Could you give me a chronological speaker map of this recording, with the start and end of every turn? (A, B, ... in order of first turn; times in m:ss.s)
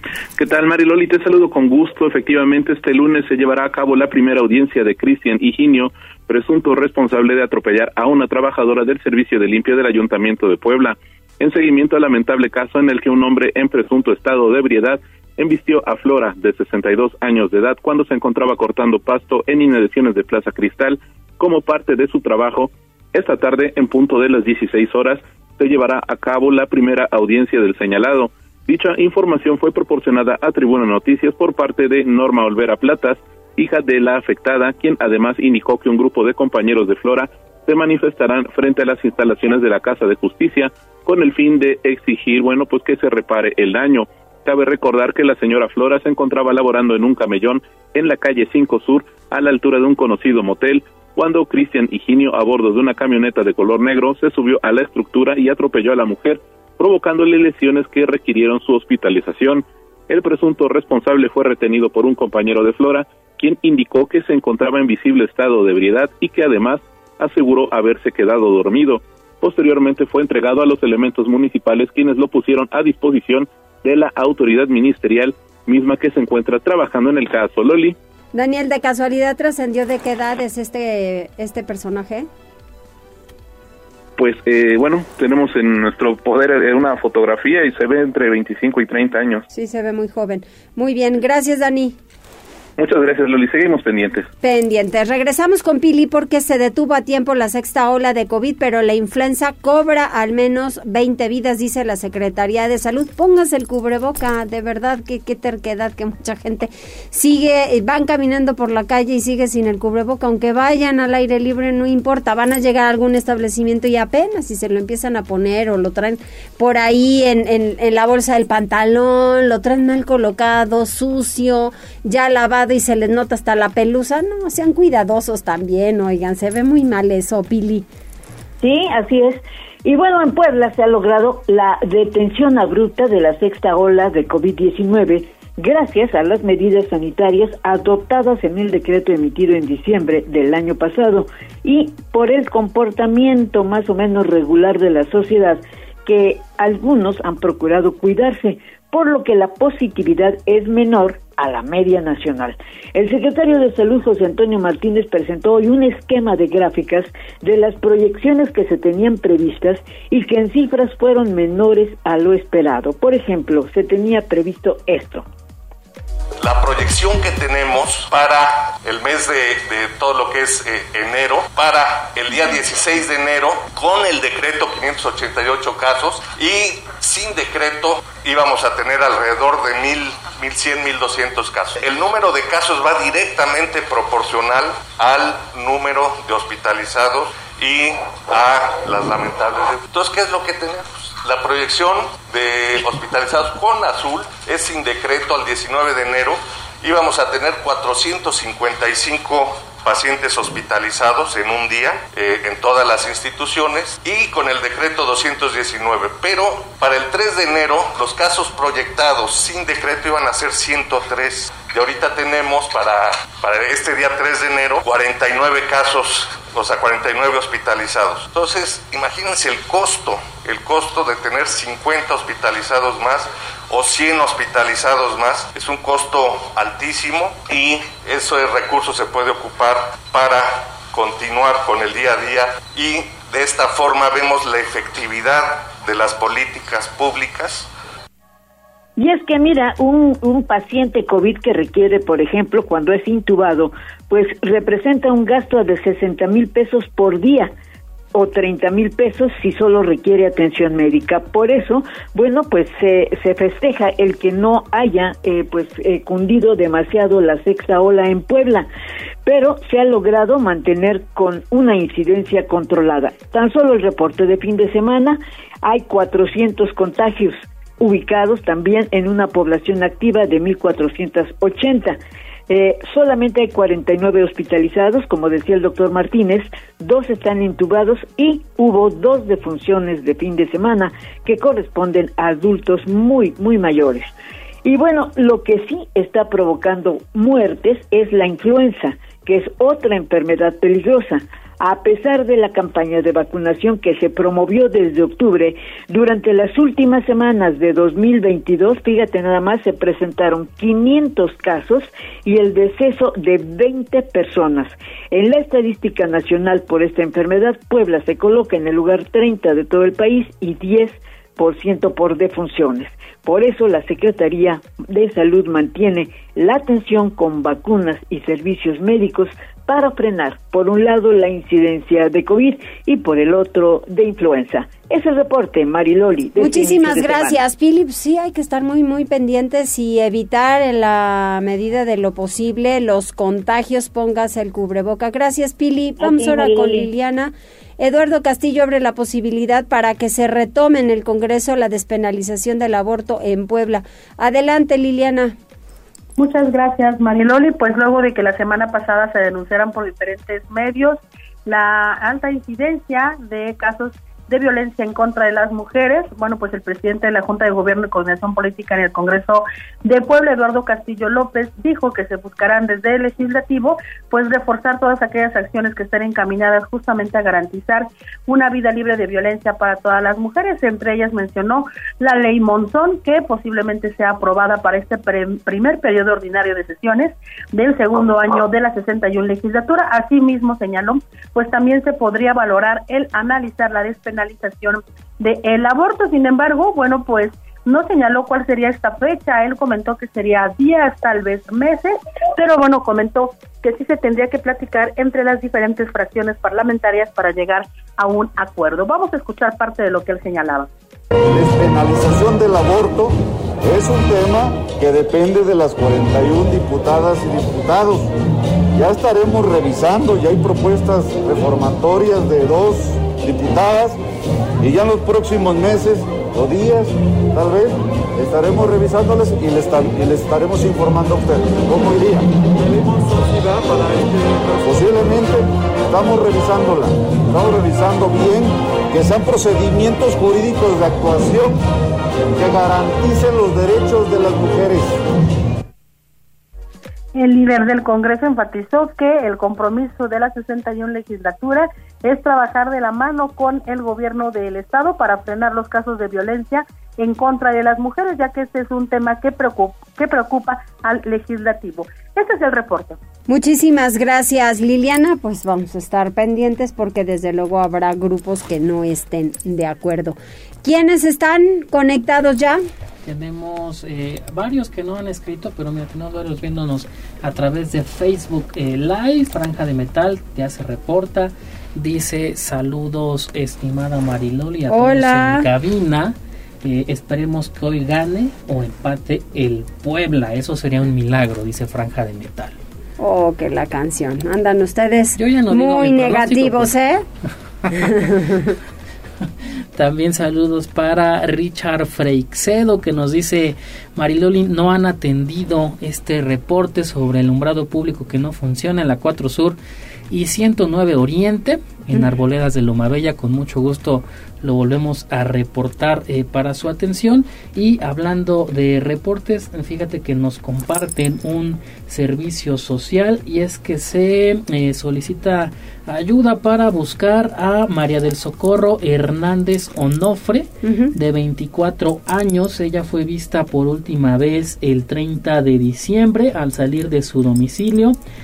0:00.4-1:18.0 A
1:18.3-1:22.3 B
1:24.2-1:29.4 A
1:29.5-1:32.0 B
1:32.8-1:34.2 A
1:34.4-2:07.9 B
2:08.6-2:45.2 C
2:46.4-3:57.7 D
3:59.0-4:07.5 C
4:08.1-4:18.7 C
4:19.2-4:44.1 C
4:44.6-5:27.4 C
5:26.4-5:45.4 B
5:36.4-5:36.8 C
5:46.2-6:40.7 E
6:41.3-6:48.1 F
6:48.7-6:54.0 F
6:54.6-7:11.6 F
7:12.4-7:15.0 F
7:17.1-7:33.0 E
7:33.3-7:42.6 B
7:43.0-8:02.6 G
7:54.7-7:55.5 B
8:03.0-8:07.0 B
8:05.2-8:06.7 G
8:07.7-8:08.5 B
8:09.8-8:19.6 G
8:20.1-8:48.0 G
8:40.6-8:40.9 B